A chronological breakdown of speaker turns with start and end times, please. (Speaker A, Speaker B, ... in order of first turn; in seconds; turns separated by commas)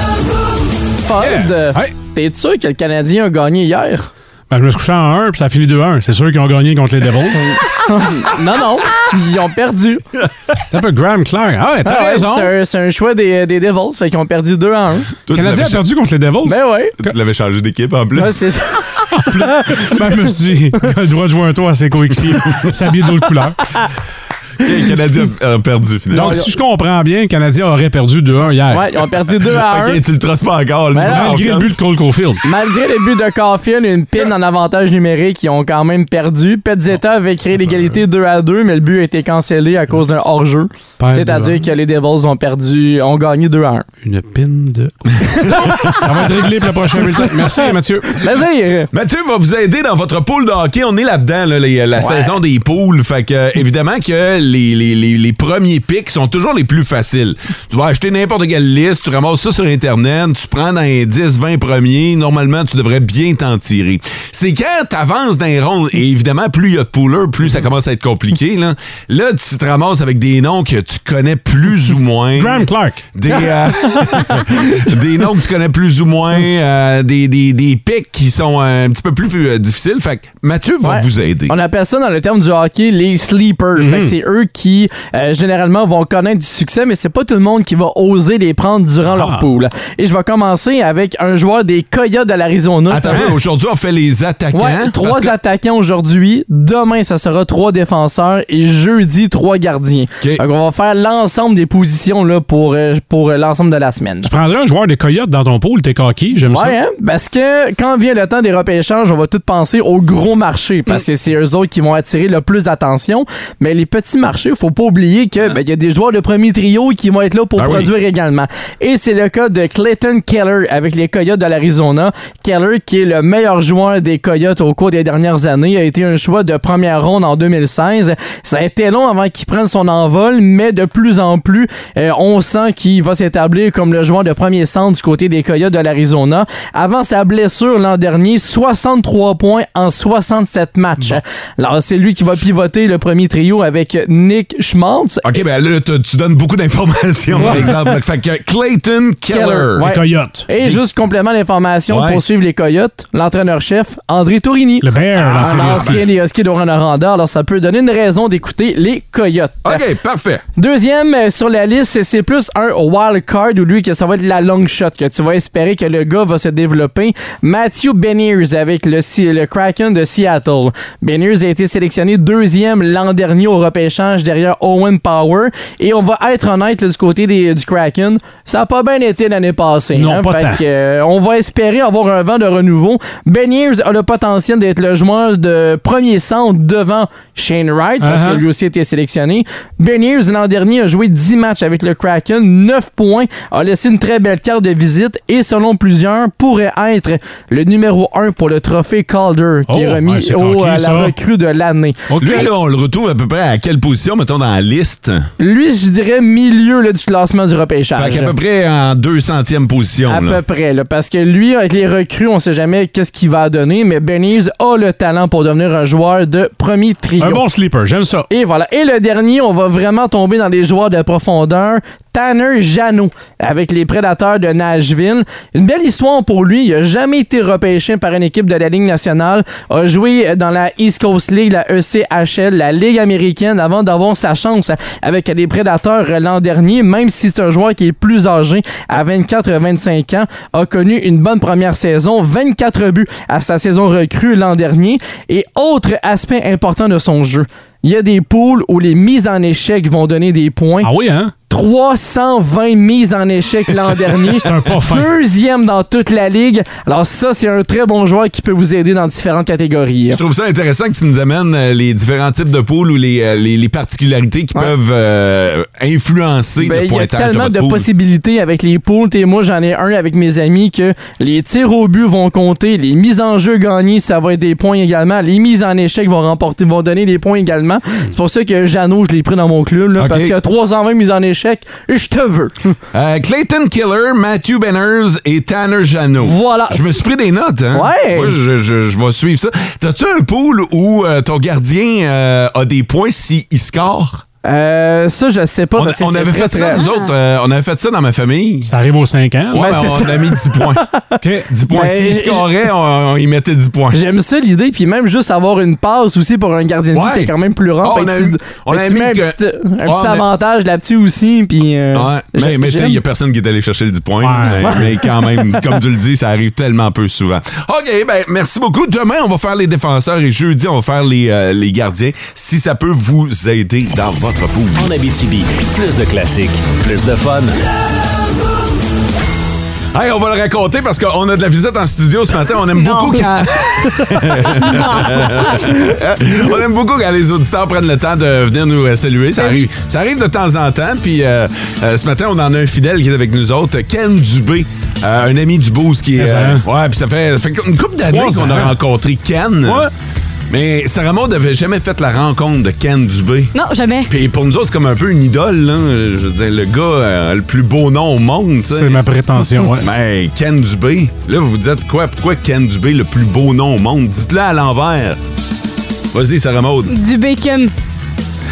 Speaker A: 1.1-4.1, Speaker B: 1.2-1.9, Speaker B: 4.5-7.6, Speaker A: 7.5-10.0, Speaker B: 10.7-12.5, Speaker A: 11.8-15.1, Speaker C: 15.3-15.8, Speaker B: 15.3-16.6, Speaker A: 16.4-16.9, Speaker C: 17.0-18.4, Speaker A: 18.1-19.9, Speaker B: 19.1-23.7, Speaker C: 24.6-26.4, Speaker B: 26.1-28.9, Speaker A: 26.2-26.5, Speaker A: 28.7-30.0, Speaker C: 29.6-31.8, Speaker A: 30.9-31.7, Speaker B: 31.1-32.4, Speaker A: 32.4-43.9, Speaker B: 37.5-38.0, Speaker B: 41.0-41.7, Speaker B: 44.0-48.2, Speaker A: 45.4-46.0, Speaker C: 45.7-46.0, Speaker A: 47.5-48.9, Speaker C: 48.9-81.5, Speaker A: 52.0-52.4, Speaker B: 72.4-73.1, Speaker A: 80.8-93.3, Speaker B: 83.8-84.2, Speaker B: 89.0-89.5, Speaker C: 92.9-95.3, Speaker B: 93.1-93.3, Speaker A: 94.5-104.3, Speaker B: 104.2-106.8, Speaker A: 106.5-145.3, Speaker C: 117.6-117.9, Speaker C: 145.2-149.9, Speaker A: 147.4-147.8, Speaker B: 147.4-147.7, Speaker A: 149.3-159.8, Speaker B: 149.8-150.5, Speaker C: 151.9-152.2, Speaker B: 154.8-156.1, Speaker C: 155.2-156.0, Speaker C: 159.6-160.4, Speaker A: 160.6-202.4, Speaker B: 179.9-180.6, Speaker B: 188.0-188.4, Speaker B: 199.7-201.2, Speaker B: 202.1-202.5, Speaker C: 202.2-205.3, Speaker A: 205.4-208.3, Speaker C: 207.9-210.4, Speaker A: 210.1-217.5, Speaker B: 217.2-218.3, Speaker A: 218.3-250.9, Speaker B: 250.8-251.3, Speaker A: 251.5-260.2, Speaker B: 254.4-255.1, Speaker C: 260.1-267.9, Speaker A: 266.6-282.7, Speaker C: 280.0-280.3, Speaker C: 282.9-294.2, Speaker A: 286.2-287.0, Speaker A: 287.7-288.4, Speaker A: 294.4-296.8, Speaker C: 295.8-298.7, Speaker D: 296.8-297.1, Speaker B: 298.7-299.7, Speaker C: 299.5-300.9, Speaker A: 299.6-301.1, Speaker B: 301.2-301.5, Speaker C: 301.5-304.0, Speaker A: 301.7-302.5, Speaker A: 303.9-313.0, Speaker C: 306.9-310.3, Speaker C: 311.9-324.9, Speaker B: 314.2-314.8, Speaker E: 324.8-327.6, Speaker C: 329.9-349.9, Speaker D: 332.7-335.6, Speaker B: 346.2-346.6, Speaker B: 348.1-348.8, Speaker B: 349.6-349.9, Speaker C: 350.5-353.6, Speaker D: 353.5-354.1, Speaker C: 354.1-359.0, Speaker B: 358.7-359.9, Speaker C: 359.8-365.2, Speaker C: 366.1-366.9, Speaker D: 366.9-367.7